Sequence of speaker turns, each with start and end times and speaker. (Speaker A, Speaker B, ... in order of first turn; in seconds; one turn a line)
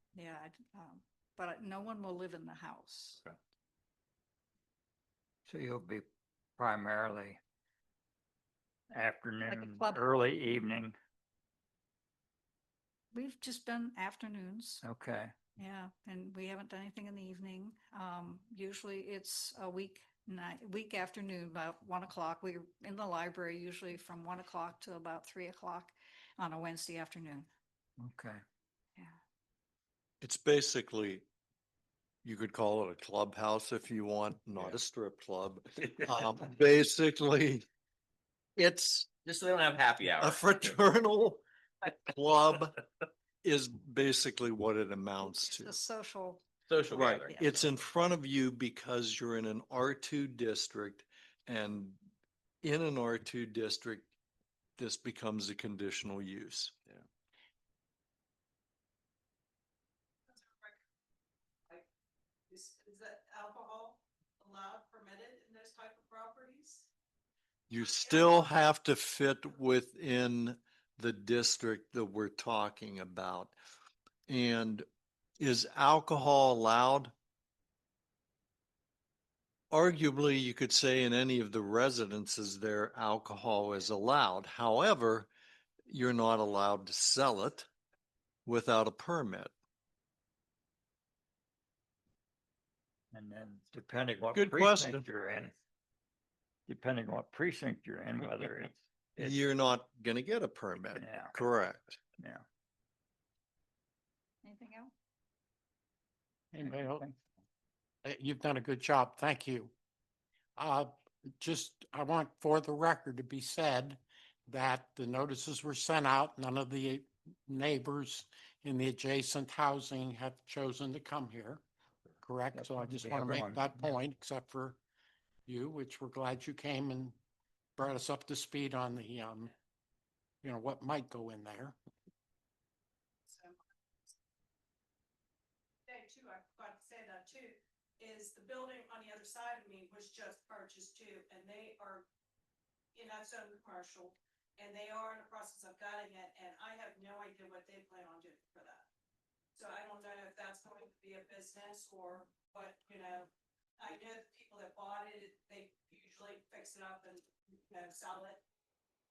Speaker A: 0.1-3.2
Speaker B: 5.5-6.0
Speaker B: 6.6-7.4
Speaker B: 8.9-10.9
Speaker A: 9.5-10.0
Speaker A: 13.1-14.8
Speaker B: 14.8-15.3
Speaker A: 15.6-27.5
Speaker B: 28.0-28.4
Speaker C: 30.2-31.2
Speaker C: 32.2-37.6
Speaker C: 38.5-39.1
Speaker D: 39.2-40.8
Speaker C: 40.1-41.4
Speaker C: 42.0-42.7
Speaker C: 43.4-45.8
Speaker A: 45.2-47.7
Speaker D: 46.7-47.4
Speaker C: 46.9-52.0
Speaker C: 52.6-54.1
Speaker C: 54.8-56.7
Speaker E: 60.3-60.8
Speaker E: 62.5-66.9
Speaker C: 67.7-73.5
Speaker E: 67.7-68.4
Speaker C: 74.3-74.8
Speaker C: 75.4-77.1
Speaker C: 79.7-85.3
Speaker C: 85.9-87.7
Speaker C: 88.4-89.5
Speaker B: 93.1-95.5
Speaker C: 94.3-95.0
Speaker B: 96.7-99.4
Speaker C: 99.2-102.0
Speaker B: 100.9-101.4
Speaker B: 102.2-102.4
Speaker A: 104.4-104.9
Speaker F: 106.5-107.0
Speaker B: 106.7-107.2
Speaker F: 108.0-109.7
Speaker F: 110.6-121.6
Speaker F: 122.2-124.8
Speaker B: 122.5-123.9
Speaker F: 125.5-127.2
Speaker F: 127.8-129.5
Speaker F: 130.4-131.8
Speaker E: 133.3-133.6
Speaker E: 135.9-142.1
Speaker E: 142.9-148.8
Speaker E: 149.5-158.4